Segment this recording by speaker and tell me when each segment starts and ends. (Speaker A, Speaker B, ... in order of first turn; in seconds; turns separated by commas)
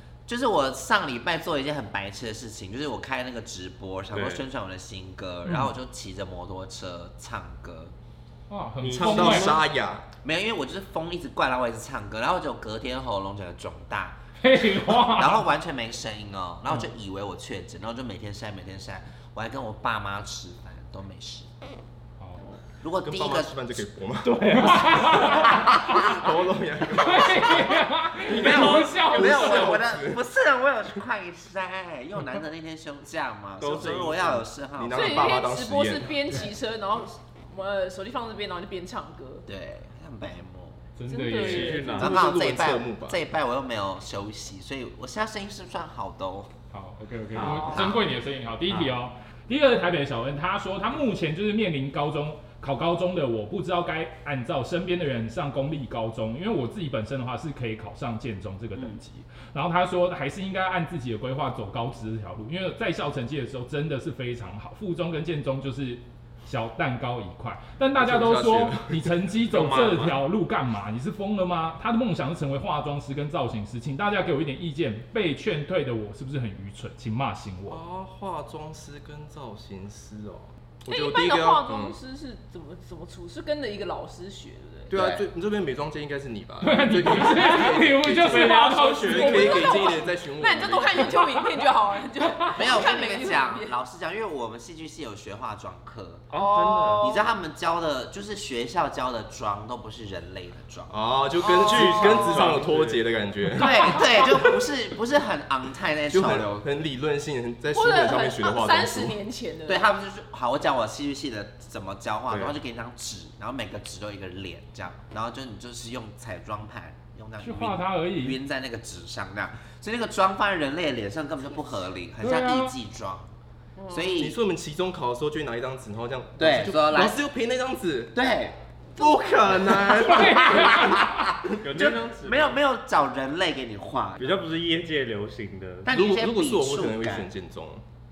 Speaker A: 0.2-7.9, Speaker B: 4.1-4.4, Speaker C: 5.5-5.7, Speaker C: 8.5-9.6, Speaker B: 8.8-9.6, Speaker D: 8.9-10.0, Speaker A: 10.2-21.5, Speaker C: 14.4-15.4, Speaker C: 22.2-22.6, Speaker A: 22.8-23.5, Speaker D: 23.0-27.8, Speaker B: 24.2-25.3, Speaker C: 24.5-26.0, Speaker A: 25.0-26.2, Speaker C: 26.9-29.8, Speaker B: 28.2-29.8, Speaker D: 28.3-30.2, Speaker A: 28.3-35.4, Speaker B: 33.6-34.5, Speaker D: 34.8-36.2, Speaker E: 34.9-39.4, Speaker A: 39.5-40.8, Speaker C: 41.0-42.0, Speaker E: 41.1-42.1, Speaker B: 41.3-42.2, Speaker A: 42.0-46.5, Speaker D: 42.0-43.2, Speaker C: 46.7-77.8, Speaker B: 47.4-47.8, Speaker E: 47.4-47.9, Speaker A: 47.4-48.0, Speaker B: 48.7-48.9, Speaker D: 68.0-69.2, Speaker B: 69.5-70.2, Speaker D: 77.7-82.0, Speaker E: 80.9-84.9, Speaker D: 84.9-91.3, Speaker A: 84.9-85.2, Speaker C: 86.6-89.7, Speaker B: 87.3-89.9, Speaker E: 89.0-93.7, Speaker C: 91.2-91.5, Speaker A: 92.5-96.2, Speaker B: 96.3-97.2, Speaker E: 96.3-97.3, Speaker A: 97.0-100.9, Speaker D: 100.9-104.5, Speaker E: 101.4-102.5, Speaker B: 101.4-103.0, Speaker A: 103.5-106.7, Speaker D: 106.1-109.2, Speaker E: 107.7-109.8, Speaker A: 109.7-123.3, Speaker B: 112.3-112.5, Speaker C: 117.4-118.4, Speaker C: 122.2-122.7, Speaker E: 123.8-124.2, Speaker A: 123.9-124.4, Speaker D: 124.2-128.1, Speaker A: 126.4-127.2, Speaker A: 128.1-128.6, Speaker D: 128.9-131.0, Speaker C: 129.9-131.3, Speaker A: 130.1-134.3, Speaker B: 131.6-132.6, Speaker B: 134.2-135.9, Speaker A: 135.8-137.3, Speaker D: 135.9-137.8